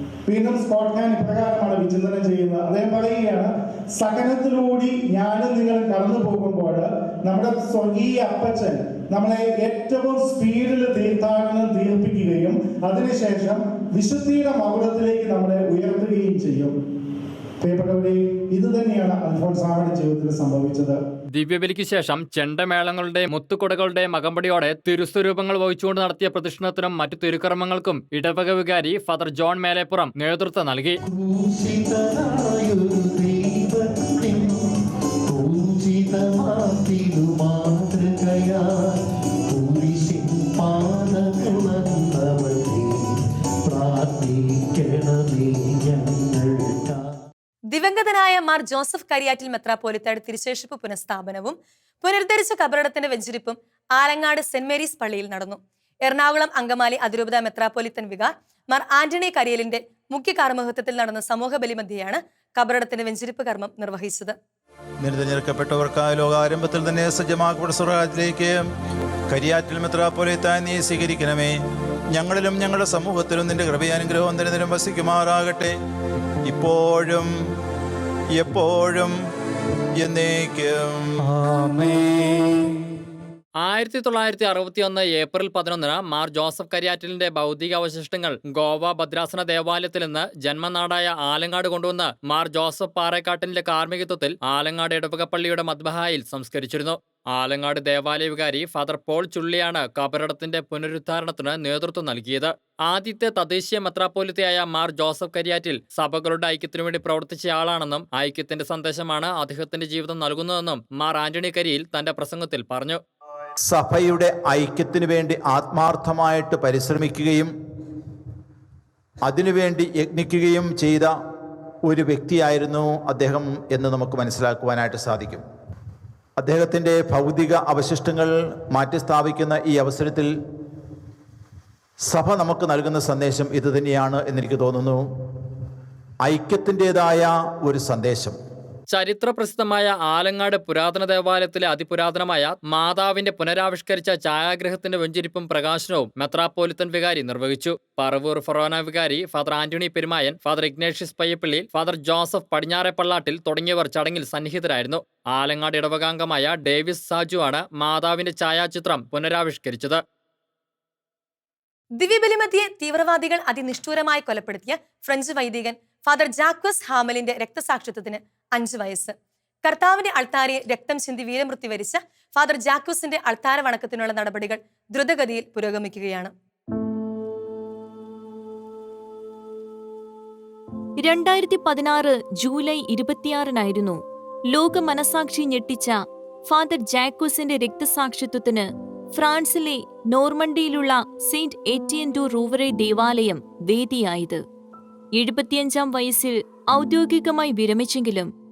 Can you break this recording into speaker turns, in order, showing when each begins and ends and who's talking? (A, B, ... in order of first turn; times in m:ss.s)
0:00.3-0:16.7 A
0:17.6-0:21.0 A
0:21.3-0:31.0 B
0:31.1-0:34.7 C
0:35.3-0:38.9 C
0:39.5-0:43.1 C
0:43.7-0:47.1 C
0:47.7-1:04.4 D
1:05.0-1:08.6 E
1:09.3-1:11.6 E
1:12.1-1:15.8 E
1:16.5-1:17.3 E
1:18.4-1:19.2 E
1:20.0-1:21.2 E
1:21.6-1:21.9 C
1:23.6-1:53.0 B
1:53.6-1:57.5 E
1:59.2-2:01.1 E
2:01.8-2:05.4 E
2:06.4-2:10.3 E
2:12.1-2:15.0 E
2:16.2-2:18.4 E
2:18.9-2:40.0 B
2:42.0-2:56.3 D
3:01.0-3:04.0 F
3:04.5-3:06.0 F
3:06.5-3:14.4 F
3:15.2-3:18.3 F